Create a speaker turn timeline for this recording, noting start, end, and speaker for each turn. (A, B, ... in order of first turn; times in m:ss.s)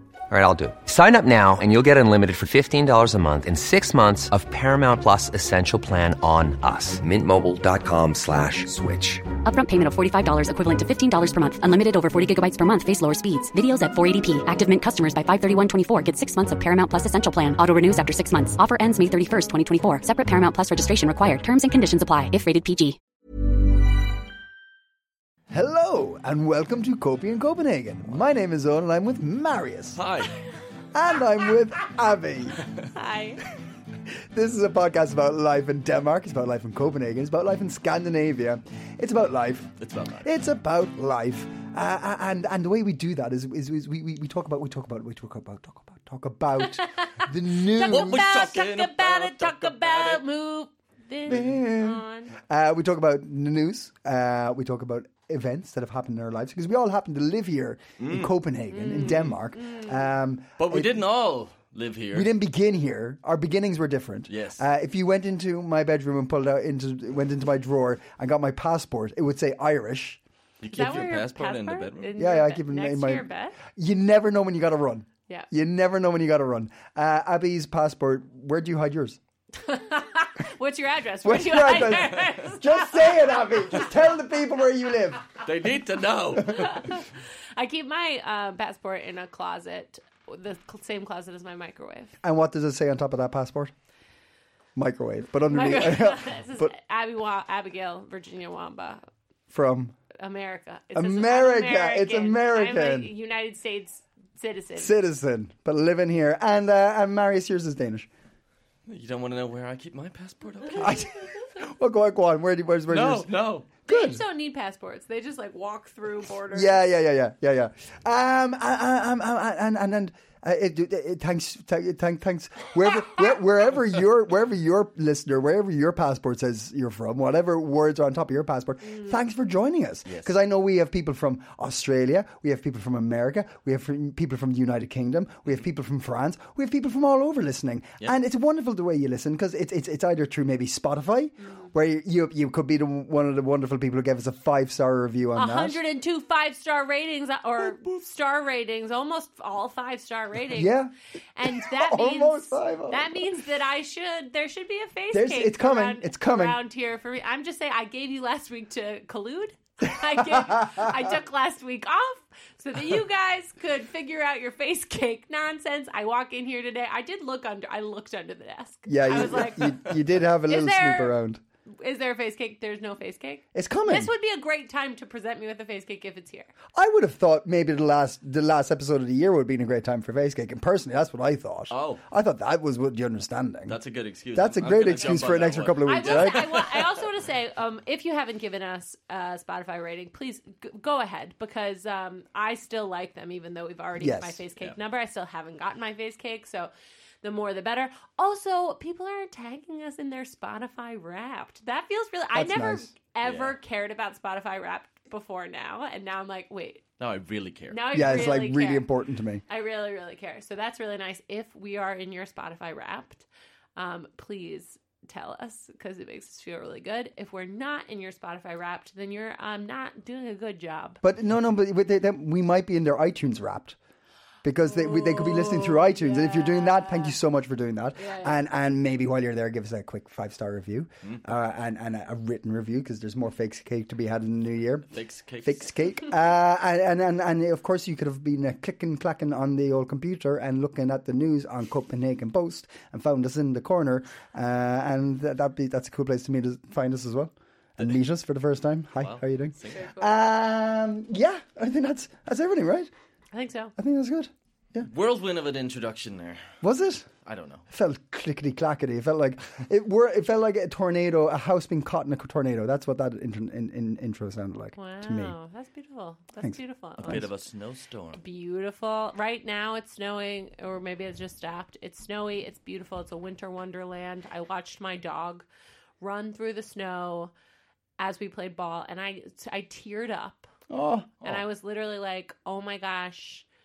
0:00.3-0:09.2 A
0:08.7-0:23.0 B
0:25.5-0:30.0 C
0:29.9-0:30.4 D
0:30.9-0:32.7 C
0:32.9-0:33.4 E
0:34.1-0:48.2 C
0:39.8-0:40.3 D
0:46.7-0:52.4 E
0:47.8-0:50.2 D
0:51.3-1:01.0 C
0:58.0-0:58.3 D
0:58.7-1:00.1 E
0:59.0-0:59.3 D
1:00.6-1:02.3 D
1:02.1-1:10.2 C
1:04.3-1:04.6 D
1:10.6-1:12.2 D
1:10.7-1:13.6 E
1:12.2-1:19.2 C
1:19.6-1:23.8 E
1:21.2-1:25.4 C
1:25.4-1:27.0 D
1:26.5-1:32.1 E
1:32.2-1:33.7 C
1:34.8-1:36.7 C
1:35.5-1:39.0 E
1:39.5-1:40.0 C
1:40.1-1:45.0 E
1:40.9-1:43.1 C
1:44.8-1:48.1 C
1:48.9-1:51.0 D
1:50.7-1:51.0 E
1:50.8-1:53.3 C
1:52.9-1:53.7 D
1:53.9-1:54.2 C
1:53.9-1:56.8 E
1:56.5-2:25.8 C
2:10.0-2:10.3 D
2:21.4-2:21.7 E
2:25.3-2:30.8 E
2:30.5-2:33.2 C
2:31.4-2:51.1 E
2:35.1-2:36.6 C
2:40.3-2:40.9 C
2:48.9-2:51.4 C
2:51.8-2:56.5 E
2:53.5-2:54.1 C
2:56.7-3:03.8 C
3:01.7-3:02.0 D
3:03.7-3:06.9 D
3:04.3-3:06.6 C
3:05.8-3:16.7 E
3:14.0-3:14.4 C
3:17.2-3:26.8 E
3:22.3-3:22.9 C
3:23.2-3:23.5 D
3:27.0-3:28.1 D
3:27.7-3:28.9 E
3:27.9-3:29.4 C
3:29.5-3:41.0 E
3:41.0-3:43.8 C
3:44.4-3:54.9 C
3:44.6-3:47.2 E
3:48.0-3:48.4 E
3:54.9-3:55.7 D
3:55.4-4:12.9 C
4:09.0-4:09.8 D
4:09.7-4:10.1 E
4:13.3-4:13.7 E
4:13.8-4:14.9 C
4:14.8-4:16.5 D
4:16.6-4:17.1 C
4:17.2-4:17.6 D
4:17.7-4:25.3 C
4:24.7-4:27.3 E
4:26.4-4:27.2 C
4:27.0-4:28.2 D
4:28.1-4:35.4 E
4:36.0-4:37.3 E
4:38.0-4:40.5 E
4:40.7-4:41.2 C
4:41.2-4:43.4 E